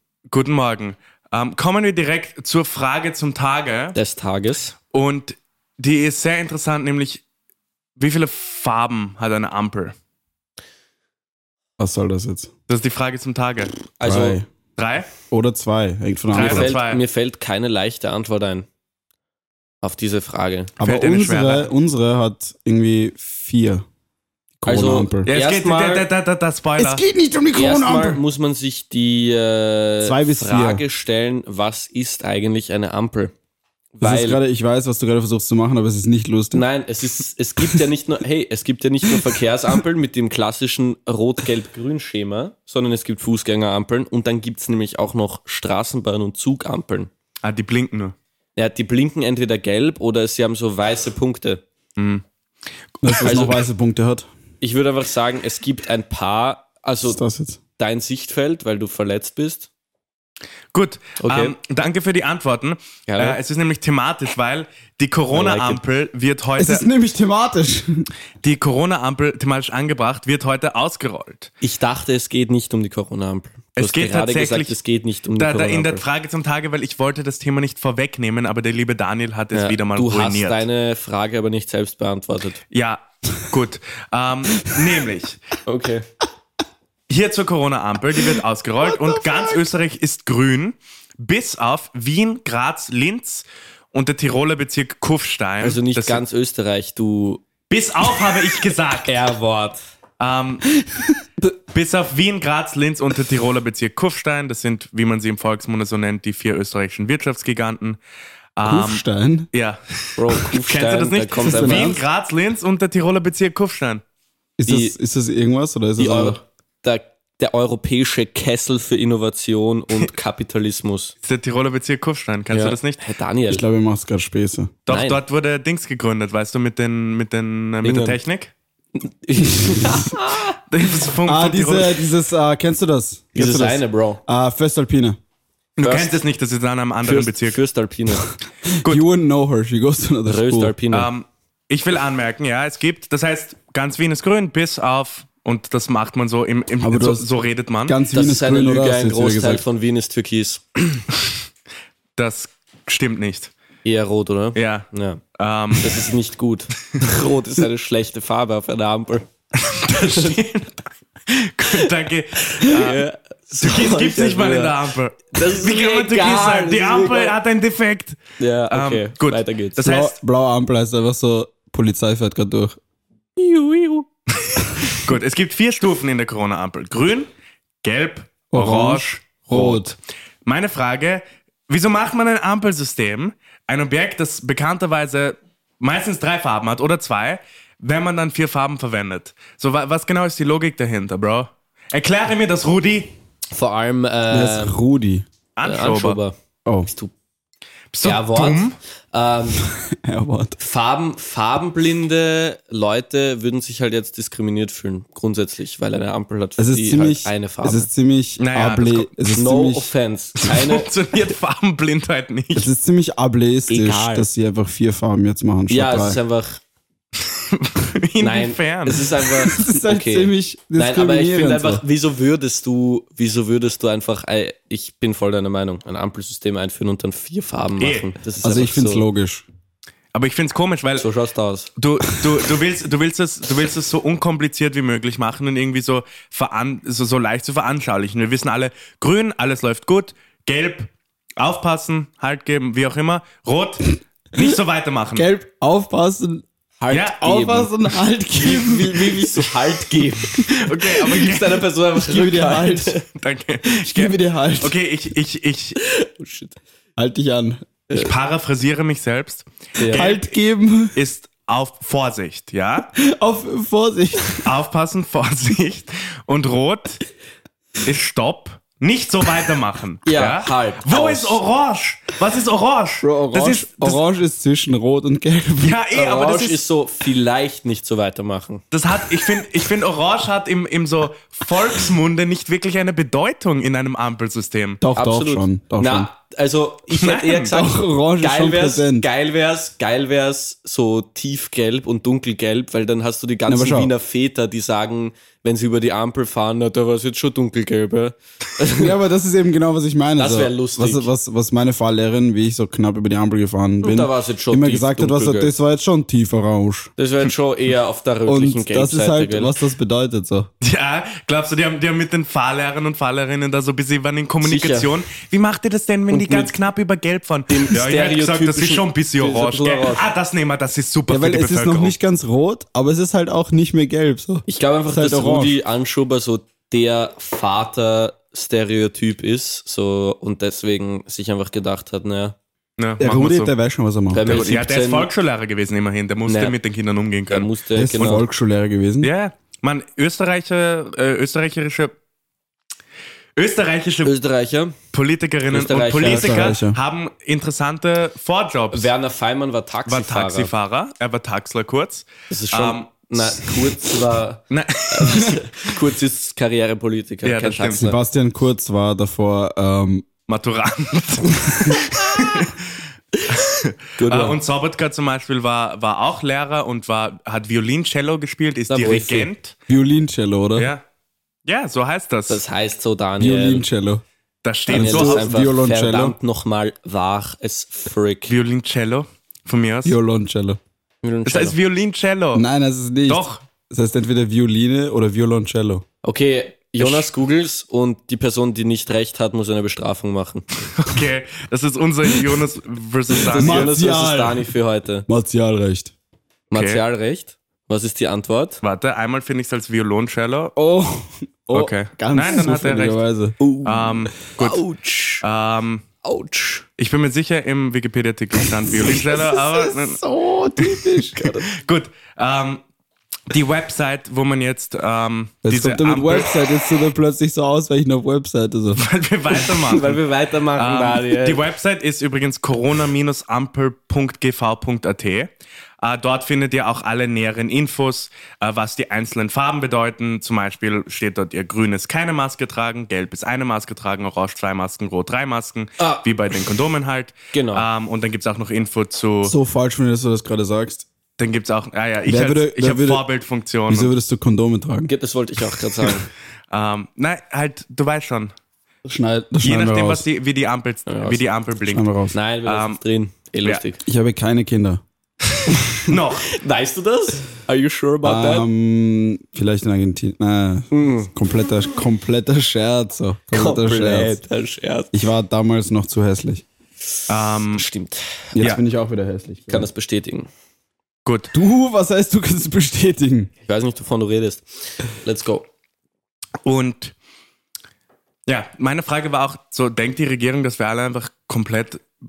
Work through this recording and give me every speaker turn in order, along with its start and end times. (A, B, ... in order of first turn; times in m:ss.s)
0:00.3-0:04.0 A
0:04.0-0:04.8 B
0:04.9-0:07.2 A
0:08.0-0:09.9 A
0:11.8-0:12.5 C
0:12.7-0:13.8 A
0:14.0-0:14.4 B
0:14.0-0:14.5 C
0:14.8-0:15.1 A
0:15.3-0:16.7 C
0:16.3-0:17.0 A
0:16.3-0:18.7 B
0:19.8-0:20.7 B
0:20.8-0:23.8 C
0:20.8-0:21.7 A
0:24.6-0:25.3 C
0:24.6-0:26.1 B
0:25.3-0:27.0 A
0:26.8-0:28.2 C
0:27.5-0:33.3 B
0:30.0-0:30.8 C
0:33.9-0:34.4 B
0:34.0-0:36.6 C
0:36.5-0:47.1 B
0:47.4-0:48.2 A
0:48.6-0:51.6 B
0:52.0-0:52.2 A
0:53.0-0:54.3 C
0:53.1-0:53.4 A
0:53.2-0:53.6 B
0:54.6-0:57.2 B
0:57.0-0:57.6 C
0:57.8-0:59.7 B
1:00.7-1:06.8 A
1:01.2-1:01.6 B
1:03.1-1:03.4 B
1:05.3-1:05.8 B
1:06.6-1:08.1 C
1:08.4-1:11.5 A
1:11.6-1:16.0 B
1:13.8-1:14.8 A
1:15.4-1:20.6 A
1:19.5-1:22.6 B
1:22.7-1:25.4 A
1:25.7-1:26.0 B
1:27.1-1:36.2 A
1:28.8-1:29.7 C
1:35.6-1:37.4 B
1:37.7-1:39.2 A
1:39.0-1:39.8 B
1:40.2-1:40.6 A
1:41.7-1:48.0 A
1:48.6-1:54.0 A
1:48.6-1:49.5 C
1:50.2-1:52.0 B
1:51.4-1:52.0 C
1:54.6-1:56.4 C
1:54.7-1:55.0 B
1:56.0-2:01.1 B
2:01.2-2:03.0 A
2:02.5-2:03.6 B
2:03.5-2:04.8 C
2:04.9-2:08.5 A
2:04.9-2:05.2 B
2:07.8-2:08.2 B
2:09.0-2:10.6 B
2:09.6-2:10.1 C
2:10.7-2:12.0 A
2:11.2-2:15.2 C
2:13.4-2:14.2 B
2:15.8-2:17.6 A
2:15.8-2:16.2 B
2:17.0-2:18.3 B
2:18.8-2:20.7 C
2:20.3-2:21.1 B
2:20.9-2:28.0 A
2:26.8-2:27.3 C
2:27.9-2:29.6 C
2:28.1-2:31.0 B
2:32.2-2:33.5 A
2:33.8-2:35.2 B
2:34.6-2:36.1 A
2:35.8-2:39.3 B
2:39.6-2:43.1 A
2:40.0-2:40.4 B
2:42.4-2:47.4 B
2:43.6-2:48.2 A
2:48.4-2:49.8 B
2:48.7-2:50.2 A
2:49.8-2:52.8 C
2:53.4-2:54.1 B
2:54.4-2:57.3 A
2:57.8-3:13.1 A
2:58.5-2:59.9 C
3:13.5-3:14.8 B
3:14.3-3:15.3 C
3:15.6-3:16.2 A
3:15.6-3:16.4 B
3:16.6-3:16.9 C
3:16.9-3:17.1 B
3:17.9-3:18.8 A
3:18.0-3:19.7 B
3:19.6-3:20.6 C
3:20.6-3:27.9 B
3:26.6-3:29.9 C
3:28.4-3:29.1 A
3:29.3-3:30.9 B
3:30.4-3:32.7 A
3:32.6-3:36.2 C
3:33.7-3:34.3 B
3:35.7-3:36.6 B
3:37.2-3:39.1 A
3:38.2-3:49.0 B
3:39.4-3:41.8 C
3:47.8-3:48.1 A
3:48.4-3:49.4 C
3:50.1-3:51.1 A
3:51.0-3:51.7 B
3:51.8-4:05.3 A
4:05.2-4:06.5 C
4:06.8-4:07.7 B
4:06.9-4:07.4 A
4:07.2-4:09.4 C
4:08.4-4:13.0 B
4:10.3-4:11.6 A
4:12.0-4:13.0 C
4:13.0-4:15.8 A
4:13.8-4:14.8 C
4:15.9-4:16.6 B
4:17.0-4:17.7 C
4:17.9-4:20.3 A
4:19.8-4:20.1 B
4:19.9-4:21.0 C
4:21.0-4:22.9 A
4:23.0-4:24.5 C
4:24.4-4:27.0 A
4:27.8-4:34.0 A
4:30.1-4:31.4 B
4:33.0-4:35.8 C
4:35.6-4:36.6 A
4:35.9-4:38.6 B
4:38.7-4:44.8 A
4:44.8-4:46.1 C
4:45.0-4:58.9 B
4:46.9-4:47.6 A
4:47.5-4:49.1 C
4:53.5-4:53.9 C
4:58.8-5:06.9 C
5:00.2-5:01.1 B
5:03.8-5:05.5 B
5:07.0-5:09.5 B
5:08.3-5:10.5 C
5:10.6-5:22.0 A
5:14.4-5:15.0 B
5:16.1-5:16.6 B
5:17.5-5:20.1 B
5:21.1-5:25.6 C
5:24.5-5:32.4 B
5:32.8-5:33.5 A
5:33.0-5:34.4 C
5:34.1-5:35.1 B
5:34.2-5:37.5 A
5:36.3-5:36.6 B
5:37.3-5:38.3 B
5:37.8-5:39.1 C
5:39.0-5:42.0 A
5:43.4-5:44.1 A
5:44.0-5:44.8 B
5:44.9-5:48.9 A
5:45.5-5:46.6 B
5:46.0-5:46.8 C
5:48.7-5:50.5 B
5:49.9-5:53.6 A
5:52.3-5:58.0 B
5:54.5-5:55.5 A
5:57.2-5:57.9 A
5:57.8-6:00.1 C
6:00.3-6:02.6 A
6:03.3-6:09.6 A
6:04.0-6:04.4 B
6:08.7-6:09.3 B
6:09.7-6:10.7 C
6:10.6-6:10.8 A
6:11.5-6:12.4 A
6:12.3-6:13.7 B
6:13.2-6:14.0 C
6:14.4-6:15.3 A
6:14.7-6:18.3 B
6:14.7-6:16.2 C
6:18.3-6:20.0 A
6:19.8-6:20.6 C
6:21.0-6:21.6 B
6:21.3-6:22.4 A
6:22.4-6:25.8 C
6:23.1-6:23.4 A
6:26.0-6:30.5 B
6:30.8-6:33.7 A
6:33.1-6:35.1 B
6:33.4-6:34.5 C
6:35.1-6:35.9 C
6:36.5-6:38.6 B
6:36.5-6:36.8 A
6:38.6-6:40.6 A
6:40.6-6:43.4 C
6:41.5-6:43.0 A
6:43.4-6:45.2 B
6:43.6-6:44.6 A
6:45.2-6:45.8 A
6:46.0-6:46.7 B
6:46.8-6:50.0 A
6:48.7-6:51.3 C
6:50.7-6:51.5 B
6:51.5-6:52.6 A
6:53.3-6:56.3 A
6:55.4-6:58.8 C
6:58.8-7:00.0 A
6:59.4-7:01.4 B
7:00.6-7:05.3 A
7:05.8-7:19.3 A
7:15.8-7:16.1 B
7:17.3-7:17.7 B
7:19.2-7:20.9 C
7:21.2-7:23.9 A
7:22.1-7:23.0 C
7:23.7-7:24.9 C
7:24.9-7:26.1 B
7:26.5-7:28.3 A
7:28.8-7:30.0 C
7:29.4-7:31.9 A
7:30.9-7:31.2 B
7:31.7-7:32.2 C
7:32.1-7:33.8 B
7:32.5-7:32.8 A
7:33.8-7:34.8 C
7:35.4-7:38.5 B
7:35.8-7:36.3 A
7:38.0-7:44.2 C
7:40.7-7:41.1 B
7:43.3-7:45.0 B
7:44.9-7:46.4 C
7:47.1-7:47.6 A
7:47.5-7:48.2 B
7:48.3-7:49.7 C
7:49.5-7:50.3 B
7:51.1-7:51.3 A
7:51.3-7:53.3 C
7:53.4-7:55.5 B
7:56.4-7:56.9 A
7:58.3-8:01.8 A